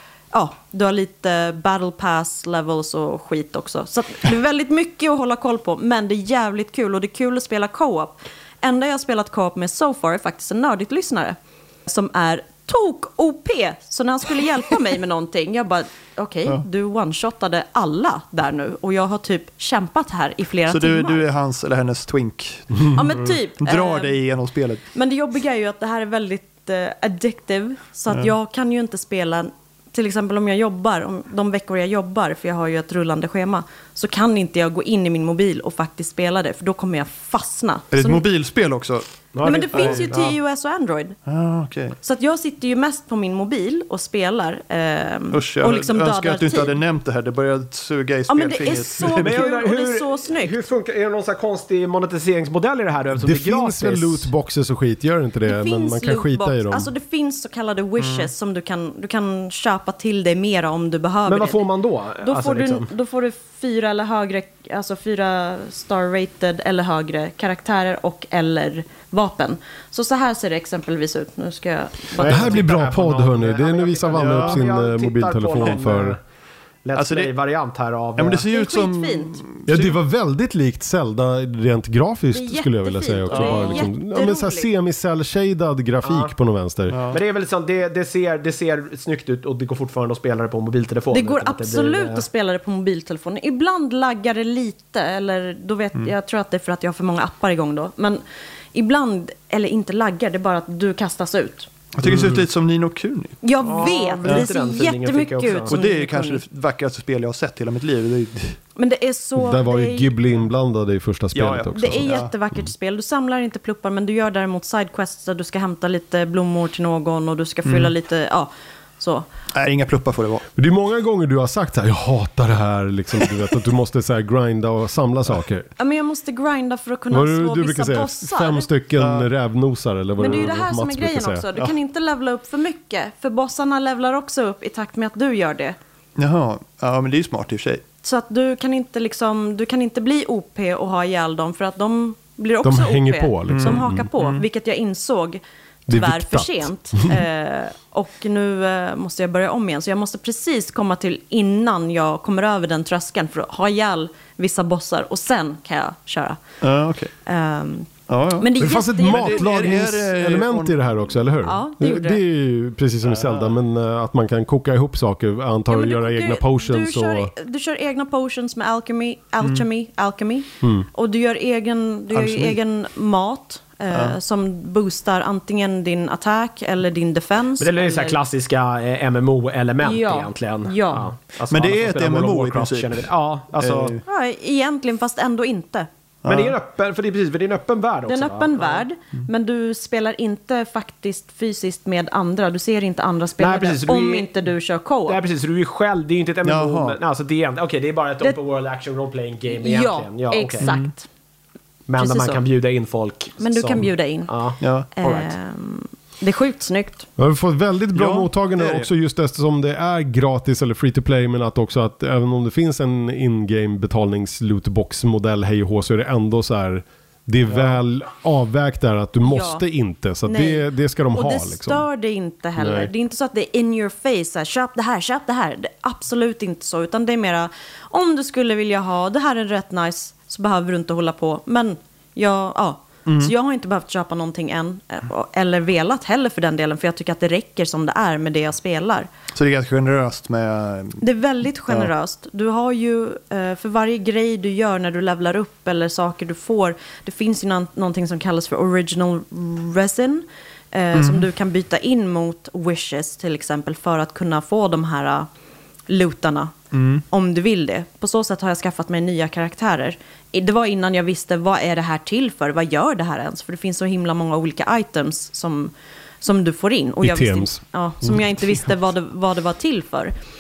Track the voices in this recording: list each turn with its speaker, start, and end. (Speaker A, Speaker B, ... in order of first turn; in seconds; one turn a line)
Speaker A: 0.3-21.2
Speaker B: 20.7-24.8
Speaker A: 22.9-24.1
Speaker A: 24.9-38.2
Speaker B: 37.9-40.1
Speaker C: 39.3-40.4
Speaker A: 39.4-41.2
Speaker B: 41.3-42.0
Speaker A: 42.0-46.8
Speaker B: 45.3-49.4
Speaker A: 48.3-50.6
Speaker C: 49.2-54.3
Speaker D: 53.2-56.9
Speaker A: 55.5-61.6
Speaker B: 58.0-58.3
Speaker C: 61.3-62.9
Speaker A: 62.2-72.6
Speaker C: 72.2-76.2
Speaker D: 72.2-76.2
Speaker B: 74.1-74.6
Speaker C: 76.8-78.4
Speaker B: 77.0-77.3
Speaker B: 78.2-80.0
Speaker A: 78.5-79.3
Speaker D: 79.7-87.0
Speaker A: 82.3-84.7
Speaker B: 83.3-83.9
Speaker C: 86.0-86.3
Speaker B: 86.9-87.2
Speaker C: 87.1-92.2
Speaker A: 91.1-98.2
Speaker A: 98.7-101.7
Speaker B: 102.0-103.4
Speaker A: 103.4-106.4
Speaker C: 103.6-105.8
Speaker B: 104.2-104.5
Speaker B: 105.7-108.6
Speaker A: 108.8-110.1
Speaker D: 109.4-112.2
Speaker B: 111.3-112.3
Speaker A: 111.7-119.3
Speaker B: 117.7-117.9
Speaker B: 119.5-120.5
Speaker D: 120.6-125.7
Speaker A: 125.8-128.7
Speaker D: 127.1-131.7
Speaker B: 129.0-129.3
Speaker A: 130.2-135.8
Speaker B: 136.2-137.8
Speaker A: 138.0-156.4
Speaker D: 142.6-144.1
Speaker B: 143.5-144.4
Speaker D: 145.9-147.2
Speaker B: 156.6-157.1
Speaker A: 157.3-159.8
Speaker B: 158.1-160.8
Speaker D: 158.6-167.3
Speaker A: 161.4-162.2
Speaker B: 163.1-163.5
Speaker A: 165.7-178.2
Speaker B: 172.1-172.6
Speaker B: 173.9-174.2
Speaker C: 177.6-183.9
Speaker A: 179.8-181.1
Speaker B: 181.5-184.0
Speaker A: 184.1-185.9
Speaker B: 186.2-186.6
Speaker C: 186.3-188.8
Speaker A: 188.1-195.2
Speaker C: 193.4-194.3
Speaker C: 195.1-200.8
Speaker B: 196.4-197.0
Speaker A: 199.5-201.1
Speaker B: 200.6-200.9
Speaker C: 201.9-205.3
Speaker A: 202.0-202.4
Speaker A: 203.4-204.3
Speaker B: 204.6-204.9
Speaker A: 205.0-207.1
Speaker D: 207.2-221.9
Speaker B: 207.9-208.9
Speaker A: 219.2-219.6
Speaker A: 220.2-239.1
Speaker D: 222.6-222.9
Speaker B: 233.1-233.3
Speaker B: 239.3-241.0
Speaker A: 241.0-255.3
Speaker B: 250.9-251.3
Speaker A: 255.9-256.5
Speaker B: 256.7-257.0
Speaker A: 257.1-270.1
Speaker D: 267.0-267.6